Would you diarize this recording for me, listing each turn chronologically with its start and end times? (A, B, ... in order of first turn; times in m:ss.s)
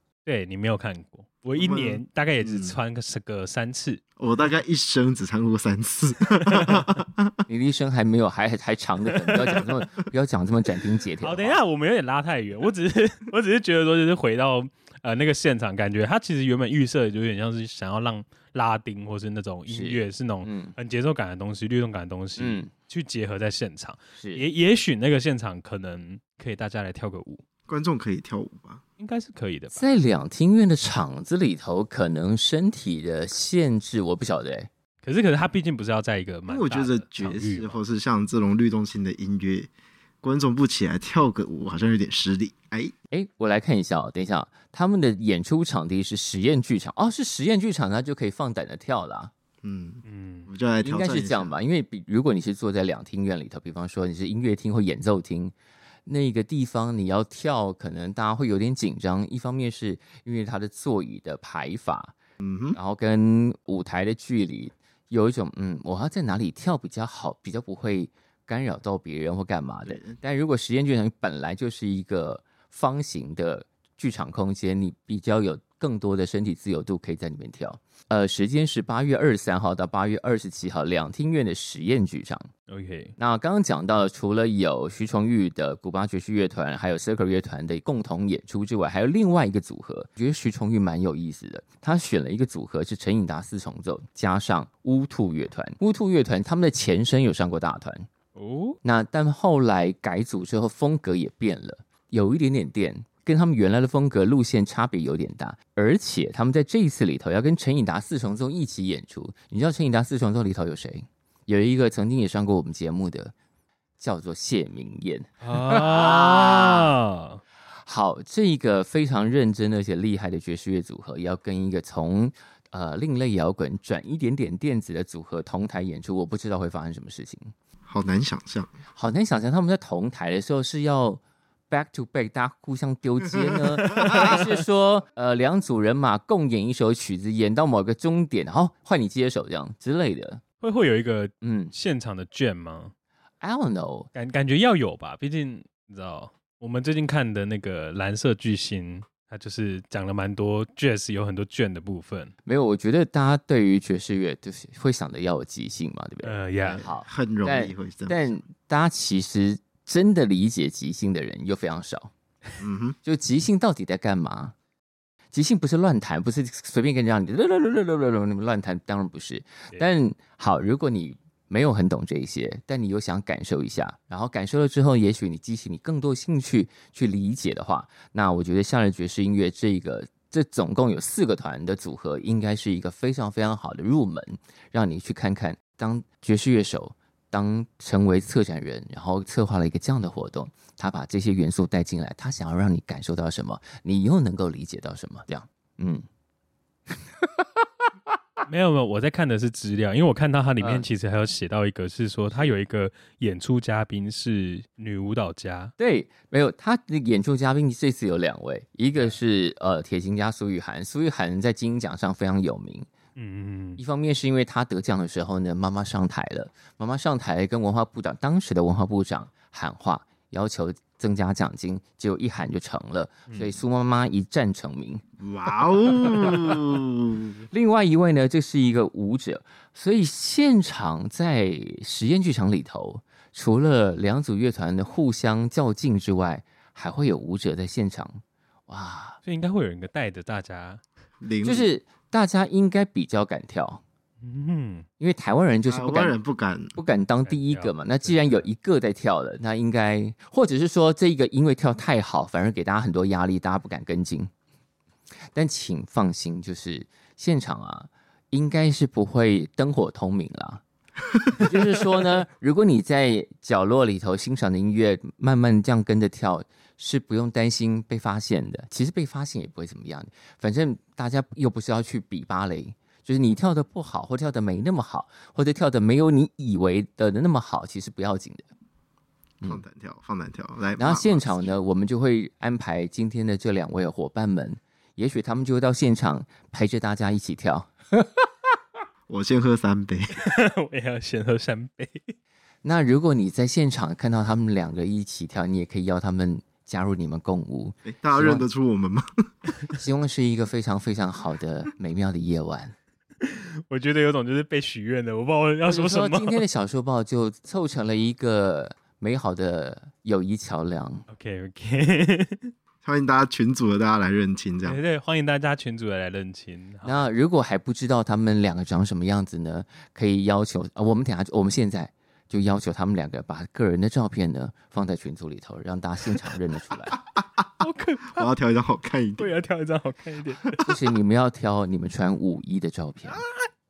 0:00.2-0:04.0 A
0:01.5-0:02.8 B
0:04.2-0:07.3 B
0:06.5-0:06.8 A
0:07.5-0:11.6 C
0:09.3-0:09.6 A
0:11.2-0:27.4 A
0:19.7-0:20.8 C
0:22.4-0:22.7 C
0:24.2-0:24.5 C
0:27.7-0:28.8 B
0:29.0-0:29.9 A
0:29.7-0:34.7 C
0:35.0-0:37.8 A
0:36.5-0:39.7 B
0:40.2-0:42.9 B
0:43.1-0:49.3 C
0:49.6-0:51.6 B
0:50.0-0:50.5 A
0:50.8-0:55.5 C
0:56.1-1:02.1 C
1:02.4-1:02.8 B
1:02.8-1:22.5 C
1:09.9-1:10.2 B
1:22.7-1:23.2 A
1:23.2-1:38.1 C
1:38.4-1:38.8 A
1:38.8-1:53.3 C
1:54.0-1:56.9 C
1:55.4-1:57.4 A
1:57.8-2:07.5 C
2:07.9-2:08.7 B
2:09.0-2:20.4 C
2:14.0-2:14.3 A
2:20.6-2:22.9 A
2:21.4-2:21.7 C
2:23.4-2:24.1 C
2:24.1-2:32.3 A
2:32.4-2:42.1 C
2:36.2-2:36.8 A
2:36.6-2:38.3 B
2:42.6-2:43.0 B
2:43.0-2:44.5 C
2:45.3-3:16.0 C
3:18.5-3:25.7 A
3:20.6-3:20.9 C
3:25.8-3:32.9 C
3:33.2-3:33.8 A
3:33.8-3:45.0 C
3:43.3-3:43.6 A
3:45.2-3:47.3 B
3:47.5-3:59.2 C
3:59.2-4:00.8 A
4:01.2-4:01.7 B
4:01.4-4:03.8 C
4:04.2-4:04.9 A
4:05.0-4:06.2 C
4:05.7-4:06.8 B
4:06.8-4:14.3 C
4:07.2-4:08.5 A
4:15.3-4:20.6 C
4:21.4-4:38.5 C
4:39.4-4:41.6 B
4:40.8-4:48.3 C
4:49.1-4:50.2 B
4:50.2-4:52.1 A
4:52.6-4:58.5 C
4:57.9-4:59.2 B
4:59.8-5:02.7 C
5:03.2-5:06.4 A
5:05.7-5:11.1 C
5:11.1-5:12.5 A
5:12.8-5:14.8 B
5:14.6-5:17.1 A
5:16.8-5:27.0 C
5:27.6-5:28.3 A
5:28.2-5:29.3 B
5:29.2-5:30.7 A
5:30.6-5:33.2 C